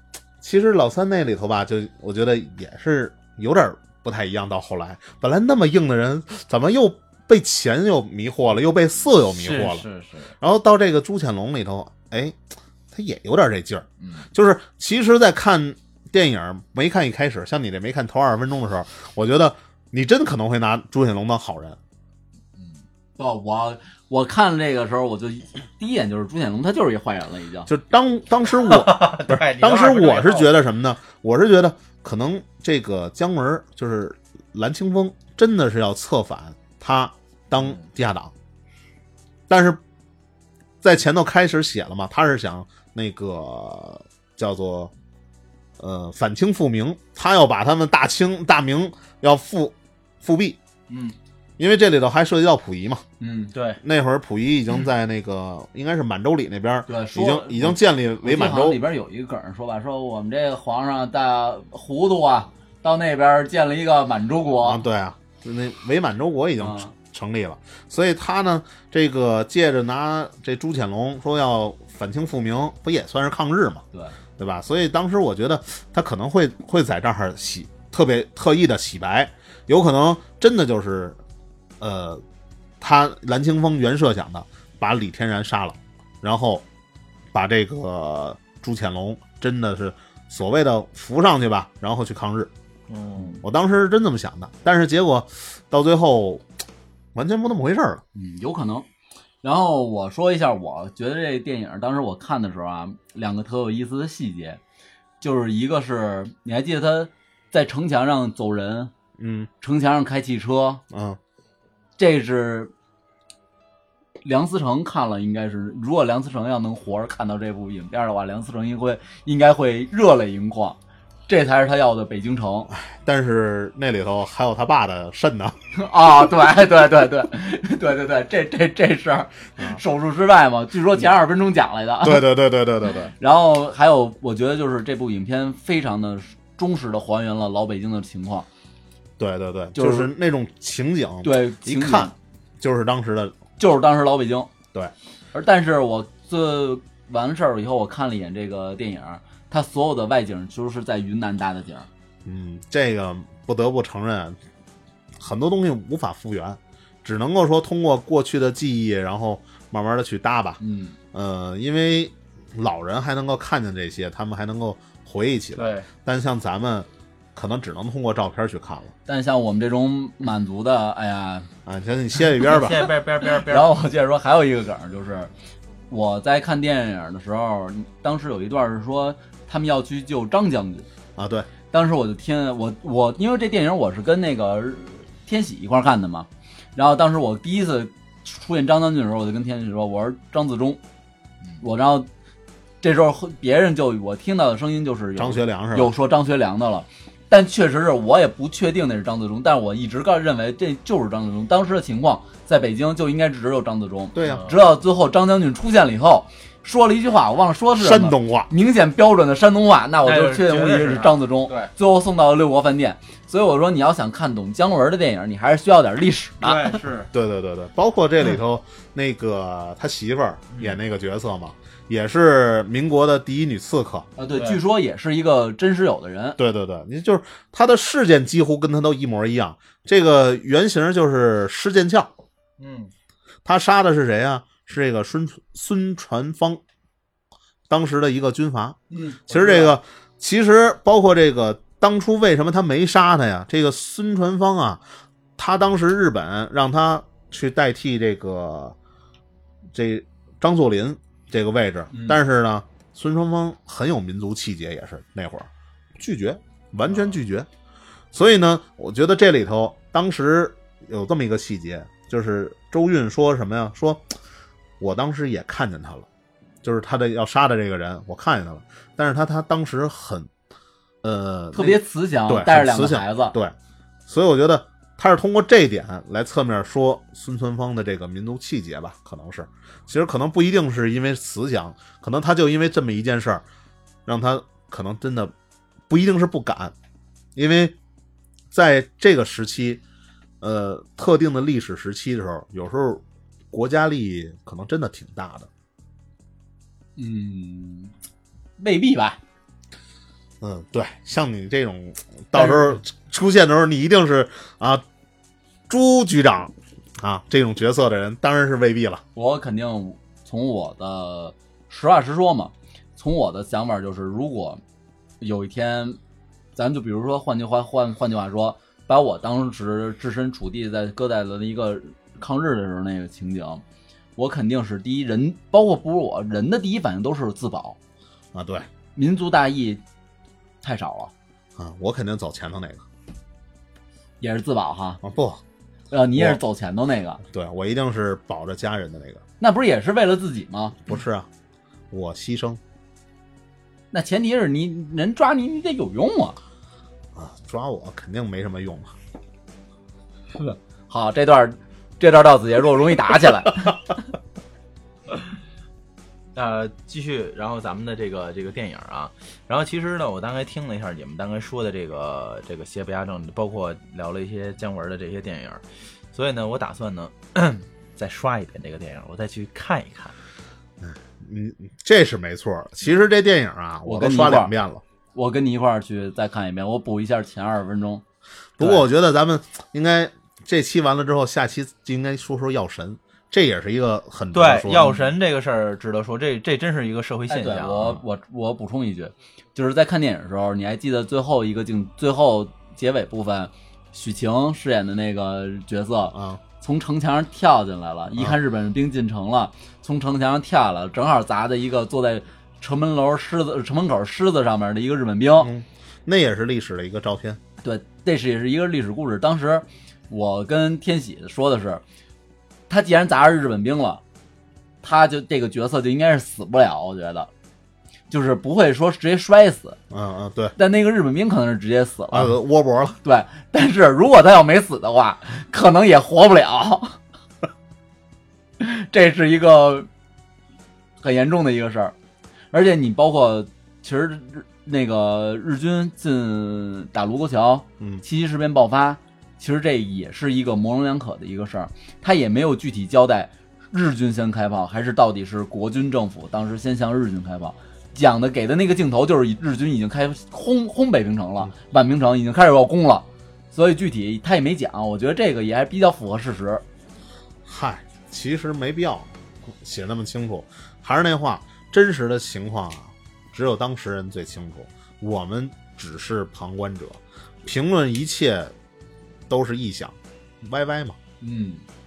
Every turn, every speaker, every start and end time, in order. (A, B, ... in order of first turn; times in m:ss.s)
0:00.4-0:09.8 A
0:09.3-0:10.3 B
0:10.4-0:12.4 A
0:12.9-0:21.8 A
0:14.0-0:14.3 B
0:22.6-0:22.8 B
0:23.2-0:27.7 C
0:27.7-0:38.3 A
0:28.6-0:30.5 B
0:37.6-0:37.8 B
0:39.5-0:39.8 A
0:40.8-0:44.9 A
0:45.8-0:50.6 A
0:50.9-0:51.2 B
0:51.6-0:53.0 A
0:53.2-0:53.5 C
0:53.5-0:53.8 B
0:53.8-0:58.8 A
0:56.9-1:04.8 C
1:04.6-1:13.8 A
1:06.6-1:06.9 C
1:14.4-1:21.2 A
1:21.8-1:22.2 A
1:22.8-1:26.6 A
1:27.3-1:32.5 A
1:32.9-1:33.4 B
1:33.4-1:36.5 A
1:37.2-1:38.0 A
1:38.2-1:38.9 C
1:39.4-1:44.6 C
1:45.2-1:48.9 C
1:49.2-1:49.5 A
1:49.6-1:50.8 C
1:50.9-1:51.2 A
1:52.0-1:52.7 C
1:54.2-2:02.7 C
2:02.7-2:05.6 A
2:05.7-2:12.4 C
2:12.0-2:13.1 A
2:13.2-2:18.5 C
2:19.2-2:23.4 A
2:19.8-2:20.1 C
2:21.2-2:22.1 C
2:23.6-2:24.5 C
2:25.3-2:31.9 C
2:32.2-2:34.4 A
2:35.2-2:40.6 A
2:40.6-2:41.0 C
2:41.1-2:48.9 A
2:45.6-2:45.9 B
2:49.1-2:51.5 C
2:51.7-2:52.9 A
2:52.4-2:53.7 B
2:53.3-2:55.3 C
2:55.9-3:00.9 C
3:01.2-3:01.5 A
3:01.7-3:10.8 C
3:11.6-3:12.1 C
3:12.8-3:36.8 C
3:15.2-3:15.9 A
3:24.2-3:24.5 A
3:24.2-3:24.6 B
3:27.8-3:28.5 A
3:30.0-3:31.7 B
3:36.4-3:37.1 B
3:37.1-3:44.1 A
3:40.5-3:40.8 B
3:44.2-3:46.4 C
3:44.3-3:44.6 B
3:46.4-3:52.1 A
3:52.6-3:52.9 B
3:53.4-3:56.6 A
3:57.7-4:04.8 A
3:58.9-3:59.8 C
4:05.4-4:08.8 A
4:09.7-4:17.5 A
4:11.9-4:12.2 C
4:18.1-4:24.1 A
4:24.8-4:26.1 A
4:26.6-4:30.3 A
4:31.0-4:33.6 A
4:31.5-4:33.4 C
4:34.1-4:43.4 A
4:44.1-4:45.3 A
4:45.9-4:46.7 A
4:47.4-4:47.8 A
4:48.5-4:49.8 A
4:50.4-4:55.5 A
4:57.0-4:57.9 C
4:58.6-4:59.2 C
5:00.4-5:04.8 A
5:02.3-5:02.8 C
5:05.7-5:09.0 A
5:09.2-5:14.6 C
5:15.2-5:16.0 C
5:16.6-5:23.6 C
5:24.2-5:27.8 C
5:28.3-5:28.7 A
5:29.0-5:29.8 C
5:30.6-5:31.1 C
5:31.6-5:32.8 A
5:34.2-5:35.0 C
5:35.0-5:35.4 A
5:35.9-5:37.2 C
5:37.2-5:39.2 A
5:39.4-5:40.8 C
5:40.8-5:41.3 A
5:41.9-5:42.6 A
5:43.9-5:46.4 C
5:47.2-5:48.9 A
5:50.4-5:53.8 C
5:56.4-6:05.6 B
6:06.1-6:10.2 B
6:10.8-6:14.8 A
6:13.8-6:14.5 C
6:15.1-6:18.0 C
6:18.6-6:25.0 A
6:24.3-6:28.0 B
6:27.3-6:45.5 C
6:36.1-6:36.4 A
6:45.4-6:47.4 A
6:47.6-6:51.8 C
6:52.7-6:54.0 C
6:54.8-6:57.3 C
6:58.1-6:59.8 C
6:59.9-7:00.6 A
7:00.6-7:02.4 C
7:02.1-7:03.0 A
7:03.0-7:07.0 C
7:08.6-7:09.9 C
7:11.0-7:11.9 C
7:12.5-7:36.6 C
7:37.4-7:48.5 A
7:49.3-7:51.0 A
7:51.2-7:51.7 C